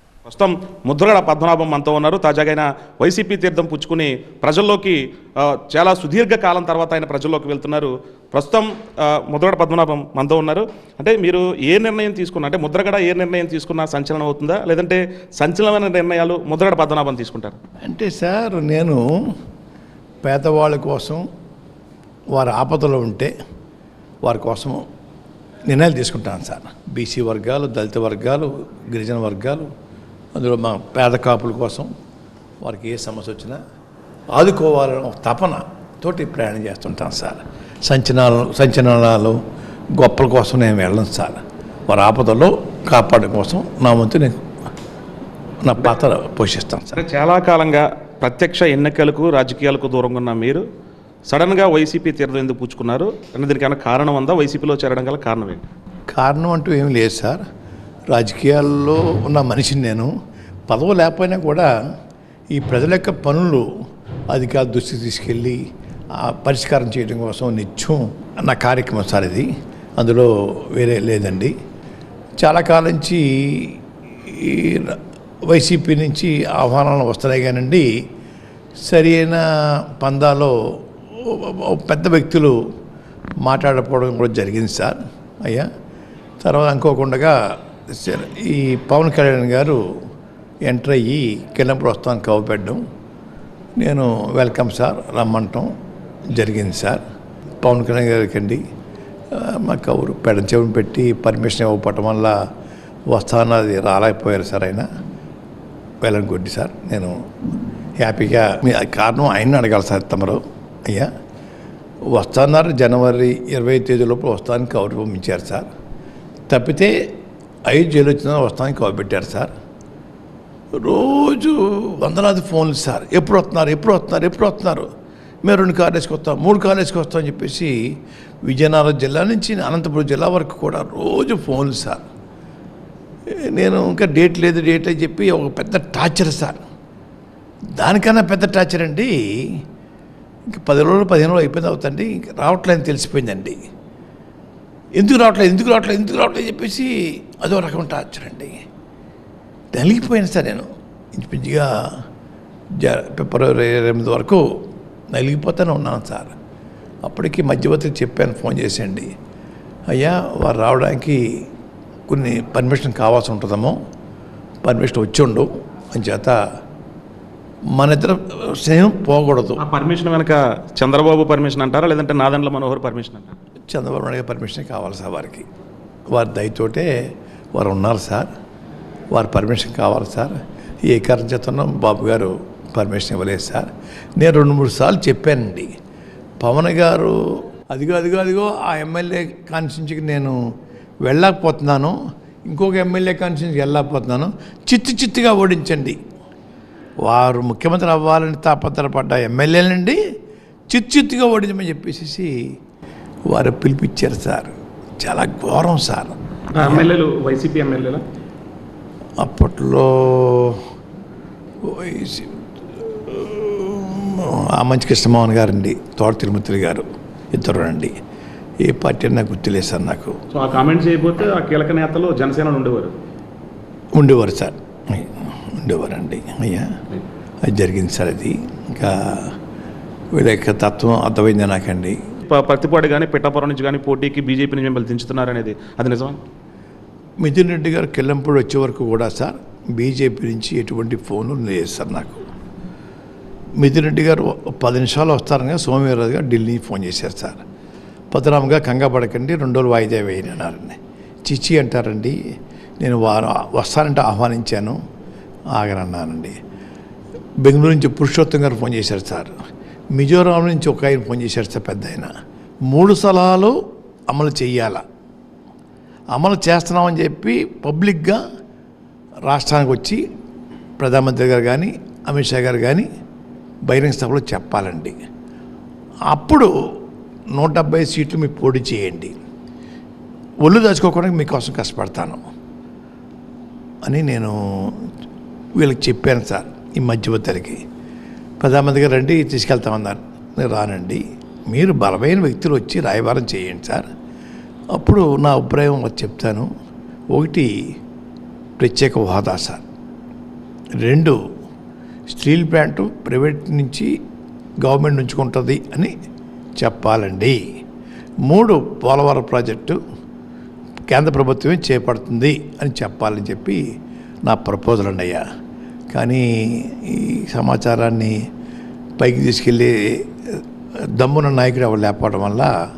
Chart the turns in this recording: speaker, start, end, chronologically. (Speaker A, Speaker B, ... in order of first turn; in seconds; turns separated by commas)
Speaker A: 0.2-17.6, Speaker B: 17.8-19.0, Speaker B: 20.2-21.2, Speaker B: 22.3-23.3, Speaker B: 24.2-24.8, Speaker B: 25.7-29.7, Speaker B: 30.3-31.9, Speaker B: 32.6-33.6, Speaker B: 34.3-39.4, Speaker B: 40.0-41.4, Speaker B: 41.9-44.4, Speaker B: 45.6-47.0, Speaker A: 46.9-50.6, Speaker A: 51.3-55.6, Speaker B: 56.1-57.4, Speaker B: 58.1-60.1, Speaker B: 60.7-61.7, Speaker B: 62.5-63.6, Speaker B: 64.3-65.6, Speaker B: 66.2-71.5, Speaker B: 72.4-77.9, Speaker B: 78.9-79.4, Speaker B: 79.9-80.5, Speaker B: 81.2-82.5, Speaker B: 83.4-85.7, Speaker B: 86.4-87.3, Speaker B: 87.9-89.8, Speaker B: 90.7-92.8, Speaker B: 93.8-95.7, Speaker B: 96.3-97.0, Speaker B: 97.6-98.6, Speaker B: 99.3-102.3, Speaker B: 103.1-104.9, Speaker B: 106.0-107.1, Speaker B: 108.0-111.1, Speaker B: 112.1-115.7, Speaker B: 116.5-116.9, Speaker B: 117.7-119.5, Speaker B: 120.8-124.9, Speaker B: 125.4-127.7, Speaker B: 128.4-132.0, Speaker B: 133.5-136.6, Speaker B: 137.8-139.6, Speaker B: 140.5-143.6, Speaker B: 145.0-148.5, Speaker B: 149.7-151.7, Speaker B: 152.8-154.4, Speaker B: 155.1-156.3, Speaker B: 157.1-159.1, Speaker B: 159.9-161.2, Speaker B: 162.1-163.7, Speaker B: 164.6-166.3, Speaker B: 167.8-169.6, Speaker A: 169.6-173.3, Speaker B: 173.7-175.4, Speaker B: 176.1-176.9, Speaker B: 177.5-178.3, Speaker B: 179.1-180.3, Speaker B: 180.9-185.7, Speaker B: 186.4-187.2, Speaker B: 187.7-190.3, Speaker B: 191.0-191.9, Speaker B: 192.5-196.0, Speaker B: 197.1-200.0, Speaker B: 200.7-202.3, Speaker B: 203.3-206.9, Speaker A: 206.5-208.0, Speaker B: 209.2-210.6, Speaker B: 211.6-212.4, Speaker B: 212.9-217.9, Speaker B: 218.6-220.2, Speaker A: 220.3-222.9, Speaker B: 223.9-226.7, Speaker B: 227.4-229.3, Speaker B: 230.2-232.0, Speaker A: 232.3-236.2, Speaker B: 237.2-242.2, Speaker B: 243.6-247.4, Speaker B: 248.1-252.2, Speaker B: 252.8-254.8, Speaker B: 255.6-256.4, Speaker B: 257.4-259.3, Speaker B: 259.9-262.1, Speaker B: 262.7-263.5, Speaker B: 264.1-264.8, Speaker B: 266.1-268.2, Speaker B: 269.3-270.0, Speaker B: 270.8-272.9, Speaker B: 273.7-275.0, Speaker B: 276.1-276.5, Speaker B: 277.4-279.1, Speaker B: 280.4-282.2, Speaker B: 283.8-284.7, Speaker B: 285.6-287.6, Speaker B: 288.4-293.8, Speaker B: 294.8-296.5, Speaker B: 297.1-297.5, Speaker B: 298.6-299.6, Speaker B: 300.8-301.1, Speaker B: 302.1-303.9, Speaker B: 304.6-305.9, Speaker B: 306.6-307.4, Speaker B: 308.2-309.8, Speaker B: 310.9-313.6, Speaker B: 314.3-315.2, Speaker B: 315.9-318.1, Speaker B: 319.0-319.7, Speaker B: 321.0-322.5